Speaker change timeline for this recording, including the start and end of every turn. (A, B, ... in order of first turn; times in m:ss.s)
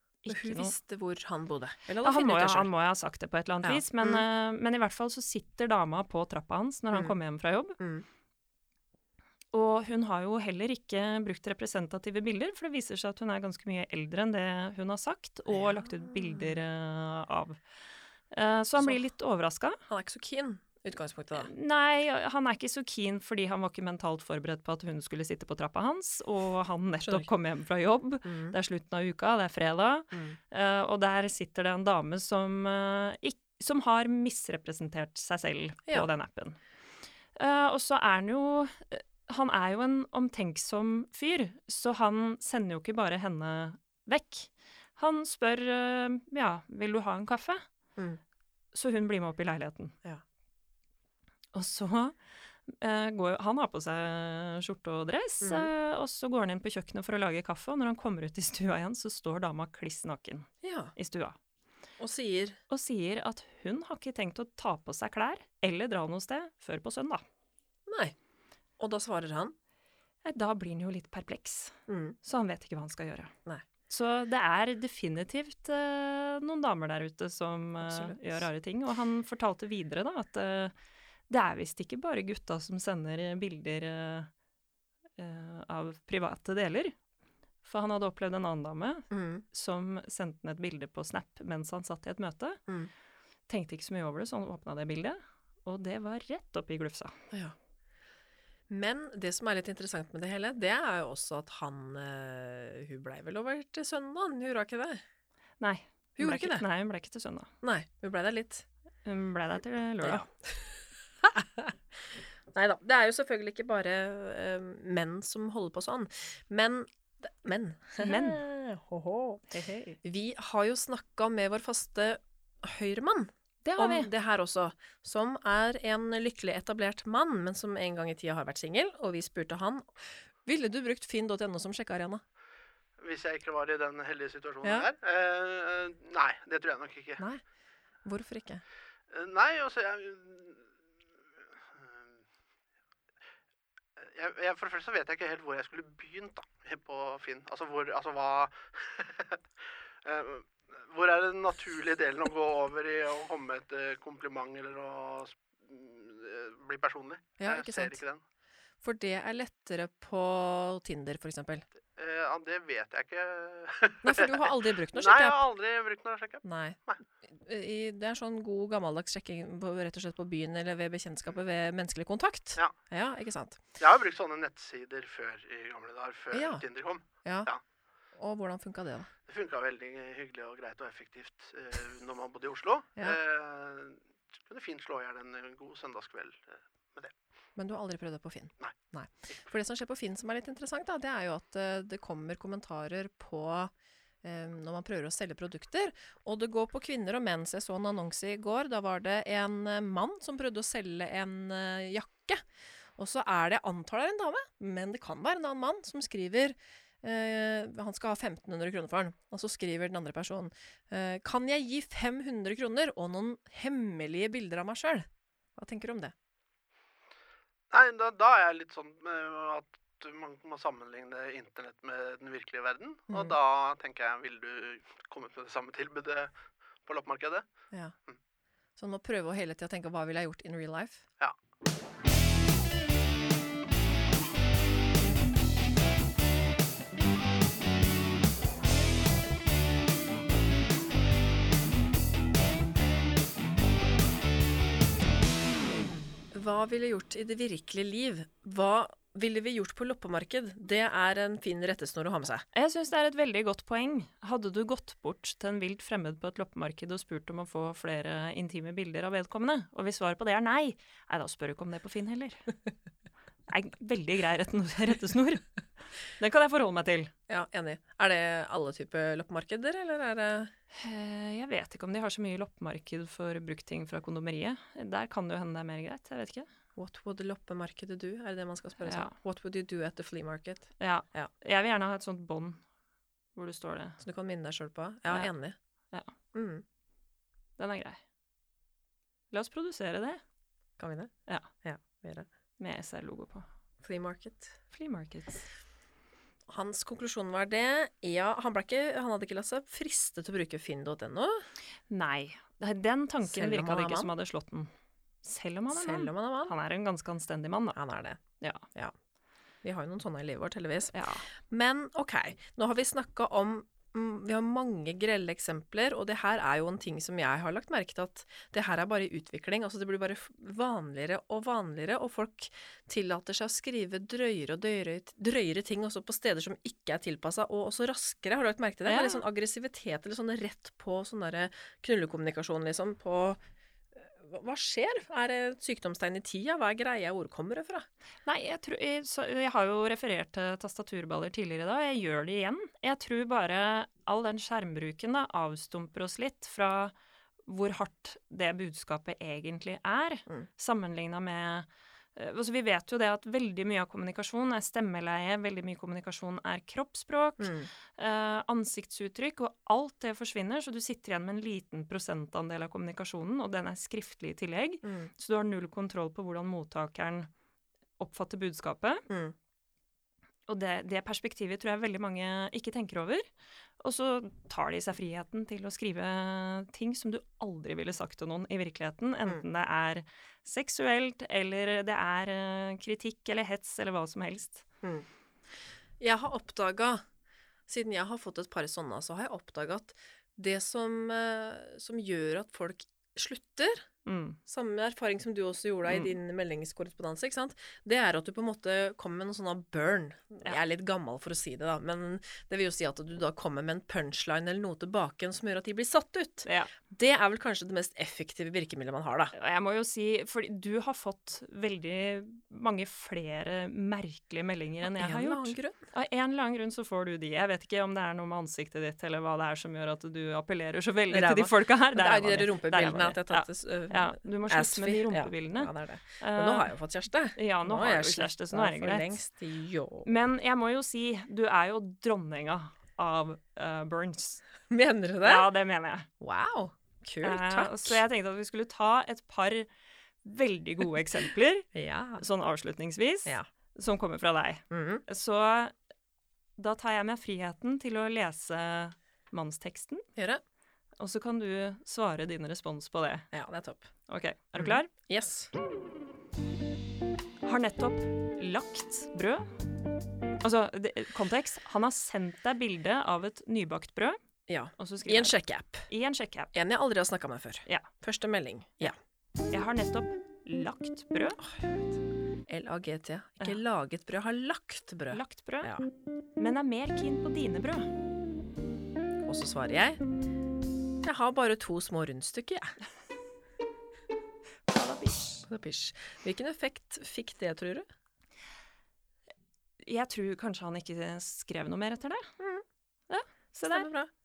0:00.2-0:00.7 A
0:00.3-0:02.7 B
0:02.0-0:07.8 A
0:03.6-0:04.2 B
0:07.8-0:08.0 B
0:09.5-0:17.6 A
0:15.5-0:16.6 B
0:18.3-0:19.8 A
0:18.8-0:19.0 B
0:19.9-0:21.5 B
0:21.4-0:36.6 A
0:28.2-0:28.6 B
0:30.1-0:30.4 B
0:37.4-0:47.6 A
0:48.7-0:50.0 A
0:51.5-0:52.2 A
0:52.7-1:01.4 A
0:55.4-0:55.7 B
1:00.6-1:00.9 B
1:02.0-1:02.6 B
1:02.7-1:07.2 A
1:07.9-1:08.2 B
1:08.8-1:09.6 B
1:10.2-1:13.3 A
1:11.9-1:12.2 B
1:13.9-1:20.7 A
1:17.8-1:18.4 B
1:21.3-1:24.3 A
1:25.2-1:27.0 A
1:27.6-1:32.6 A
1:29.1-1:29.4 B
1:33.5-1:37.2 A
1:38.7-1:45.0 B
1:45.6-1:47.5 A
1:46.2-1:46.6 B
1:47.6-1:48.7 B
1:49.0-1:50.3 A
1:50.0-1:51.8 B
1:52.5-2:12.2 B
1:58.0-1:58.4 A
1:59.5-2:00.0 A
2:03.6-2:04.1 A
2:13.0-2:17.2 C
2:14.6-2:14.9 B
2:17.2-2:17.4 B
2:18.0-2:18.6 B
2:19.1-2:20.7 C
2:21.6-2:22.1 C
2:24.0-2:29.4 C
2:30.0-2:38.2 C
2:37.4-2:38.0 B
2:38.8-2:41.6 B
2:42.0-2:47.0 C
2:44.0-2:45.5 B
2:46.4-2:53.6 B
2:53.8-2:57.6 C
2:56.3-2:56.6 B
2:57.2-2:57.5 B
2:58.1-2:59.1 B
2:59.3-3:07.1 C
3:07.6-3:13.7 B
3:14.2-3:22.4 B
3:23.0-3:36.1 B
3:37.7-3:47.5 C
3:43.1-3:43.4 B
3:48.8-3:51.1 B
4:06.3-4:12.4 B
4:12.5-4:22.5 A
4:23.5-4:25.5 A
4:26.0-4:27.1 A
4:27.3-4:30.5 B
4:30.7-4:36.5 A
4:36.8-4:41.3 B
4:38.8-4:39.2 A
4:40.8-4:42.6 A
4:43.4-4:44.0 A
4:44.0-4:45.6 B
4:46.3-4:46.6 B
4:47.6-4:48.0 A
4:49.3-4:50.2 A
4:50.8-4:51.1 B
4:51.6-4:52.3 B
4:52.6-4:53.5 A
4:53.8-4:54.6 B
4:54.7-4:55.5 A
4:56.5-5:01.5 B
5:01.9-5:04.7 A
5:03.2-5:04.1 B
5:05.2-5:07.8 A
5:05.7-5:06.5 B
5:07.8-5:08.2 B
5:08.4-5:08.7 A
5:09.6-5:33.4 B
5:10.9-5:11.3 A
5:28.9-5:29.2 A
5:34.0-5:37.9 B
5:38.3-5:46.9 A
5:47.5-6:07.3 A
5:57.4-5:57.7 B
6:04.8-6:05.1 B
6:08.0-6:09.1 A
6:09.1-6:09.4 B
6:10.5-6:13.3 A
6:13.8-6:24.6 A
6:26.0-6:27.0 B
6:27.7-6:33.8 B
6:34.1-6:34.4 A
6:34.5-6:49.3 B
6:35.9-6:36.2 A
6:46.4-6:46.7 A
6:49.3-7:06.7 A
6:54.8-6:55.8 B
7:01.1-7:10.1 B
7:07.4-7:09.2 A
7:10.1-7:14.4 A
7:14.7-7:15.5 B
7:15.2-7:16.1 A
7:16.2-7:18.0 B
7:17.2-7:19.7 A
7:20.2-7:25.7 A
7:21.7-7:22.2 B
7:24.7-7:25.0 B
7:26.6-7:30.0 A
7:30.2-7:30.4 B
7:31.0-7:33.3 A
7:33.3-7:33.9 B
7:34.1-7:34.9 A
7:34.6-7:35.5 B
7:37.4-7:39.5 A
7:40.4-7:44.2 A
7:44.5-7:45.9 B
7:44.8-7:45.4 A
7:45.9-7:46.5 A
7:46.5-7:49.0 B
7:49.5-7:51.4 A
7:51.4-7:51.9 B
7:52.5-7:55.9 B
7:55.1-7:55.7 A
7:56.4-7:57.9 A
7:59.2-8:00.0 B
8:01.0-8:02.8 B
8:04.7-8:05.5 A
8:05.5-8:07.8 B
8:09.8-8:12.4 A
8:12.4-8:12.6 B
8:13.1-8:13.9 A
8:13.6-8:14.1 B